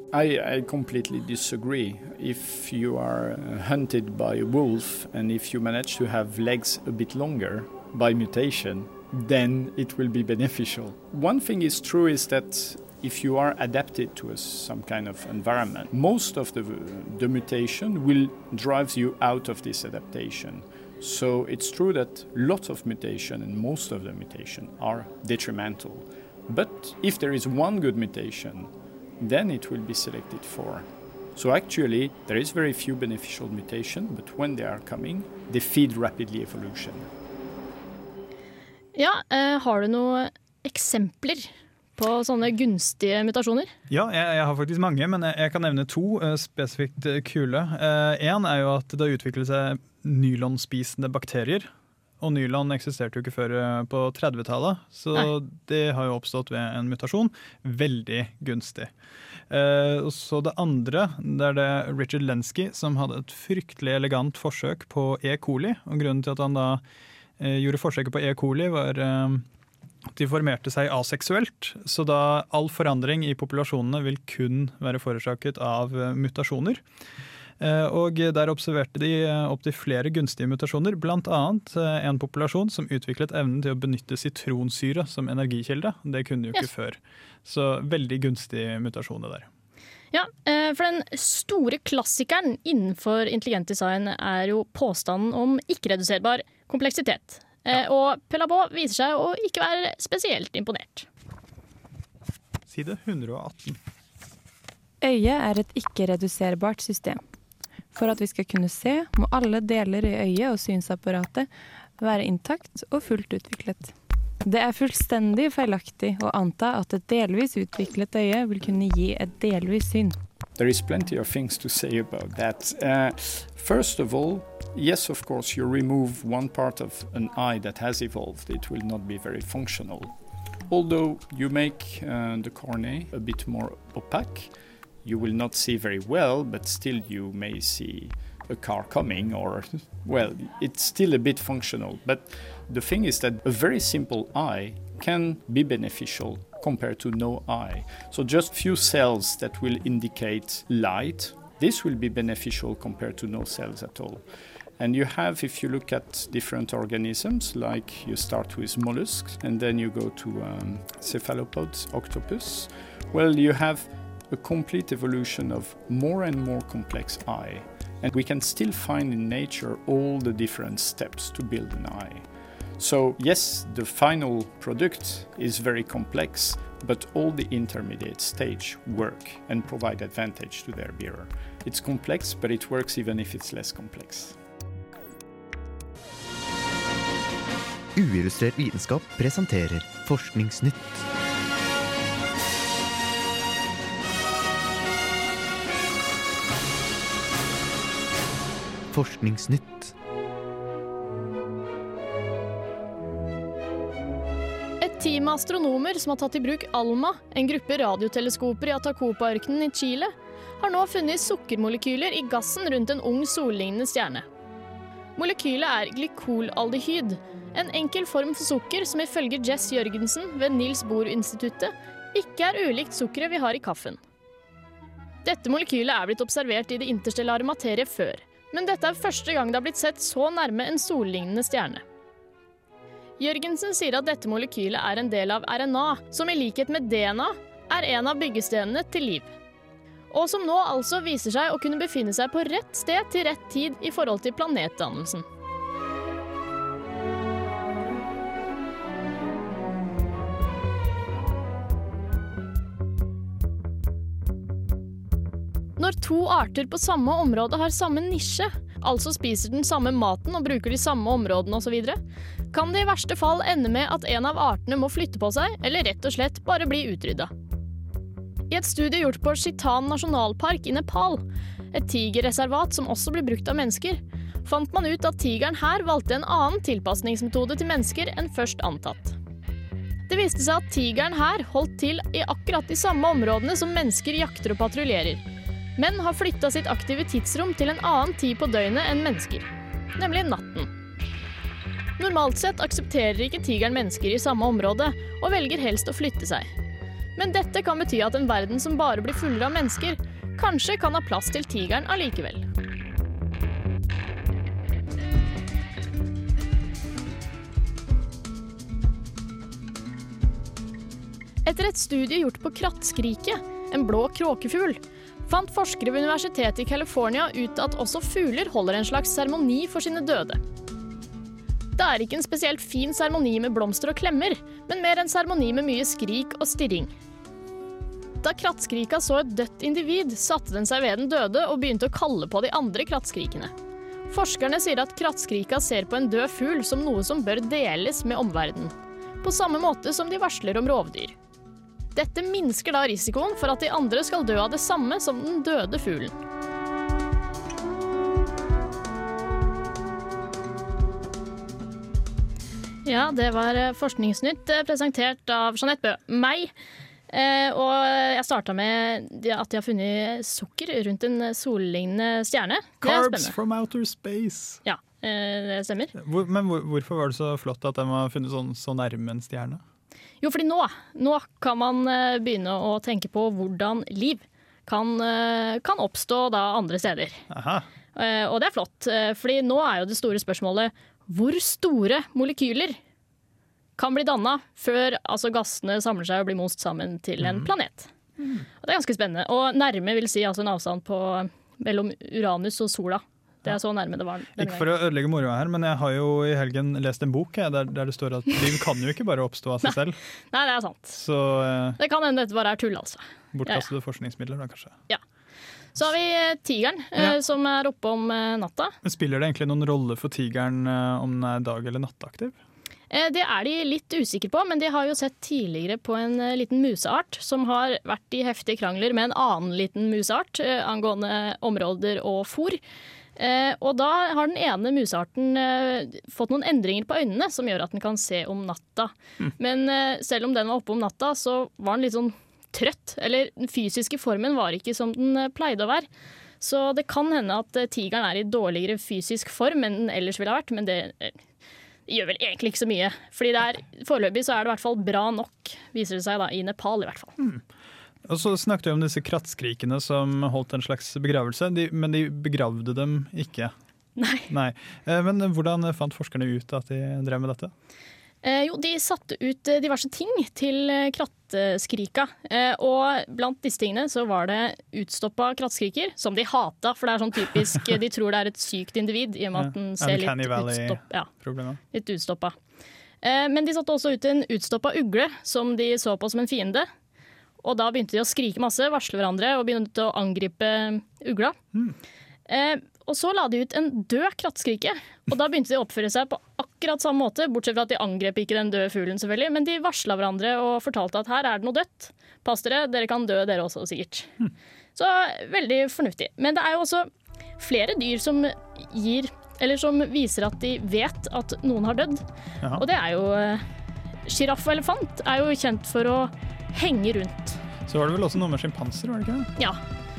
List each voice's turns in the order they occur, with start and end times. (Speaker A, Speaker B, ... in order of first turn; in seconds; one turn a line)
Speaker A: 0.1-37.1
Speaker B: 39.0-43.7
Speaker C: 43.9-58.9
Speaker C: 59.5-66.8
Speaker C: 67.4-69.5
Speaker C: 70.1-76.8
Speaker C: 77.6-89.5
Speaker B: 90.1-101.1
Speaker C: 102.7-103.8
Speaker D: 105.0-107.2
Speaker D: 107.9-111.5
Speaker D: 112.0-113.9
Speaker D: 114.5-120.2
Speaker A: 120.6-130.1
Speaker A: 130.7-134.5
Speaker A: 135.0-154.2
Speaker A: 154.8-172.3
Speaker A: 172.8-184.4
Speaker E: 187.9-191.1
Speaker E: 198.9-199.9
Speaker B: 204.8-214.3
Speaker B: 215.2-224.0
Speaker B: 225.2-231.8
Speaker B: 233.2-239.3
Speaker B: 240.1-245.2
Speaker B: 255.8-262.0
Speaker B: 262.5-267.3
Speaker B: 268.5-279.2
Speaker B: 280.1-285.2
Speaker B: 285.8-290.7
Speaker B: 292.0-296.5
Speaker B: 297.2-302.5
Speaker B: 311.4-320.4
Speaker B: 321.8-326.9
Speaker B: 328.2-333.5
Speaker B: 334.1-341.1
Speaker B: 341.9-346.1
Speaker B: 352.9-356.5
Speaker B: 357.1-363.4
Speaker C: 362.8-364.6
Speaker B: 364.6-365.9
Speaker C: 366.0-369.6
Speaker B: 370.2-377.2
Speaker C: 377.3-377.7
Speaker B: 378.0-382.8
Speaker B: 383.8-387.9
Speaker C: 387.2-387.5
Speaker C: 388.2-388.5
Speaker B: 388.6-394.7
Speaker C: 394.4-400.0
Speaker B: 400.3-401.0
Speaker C: 400.9-401.8
Speaker B: 401.8-403.7
Speaker C: 403.3-404.8
Speaker B: 405.8-408.8
Speaker C: 408.8-412.4
Speaker B: 412.9-422.6
Speaker B: 423.2-435.9
Speaker B: 436.4-441.2
Speaker B: 441.9-447.1
Speaker C: 448.1-453.5
Speaker B: 454.0-454.3
Speaker C: 454.3-457.5
Speaker B: 458.2-471.1
Speaker C: 469.4-471.6
Speaker B: 471.7-472.4
Speaker B: 473.0-476.7
Speaker B: 477.4-481.4
Speaker B: 482.3-494.1
Speaker B: 494.8-502.0
Speaker B: 502.6-503.4
Speaker B: 504.1-507.4
Speaker C: 507.7-509.3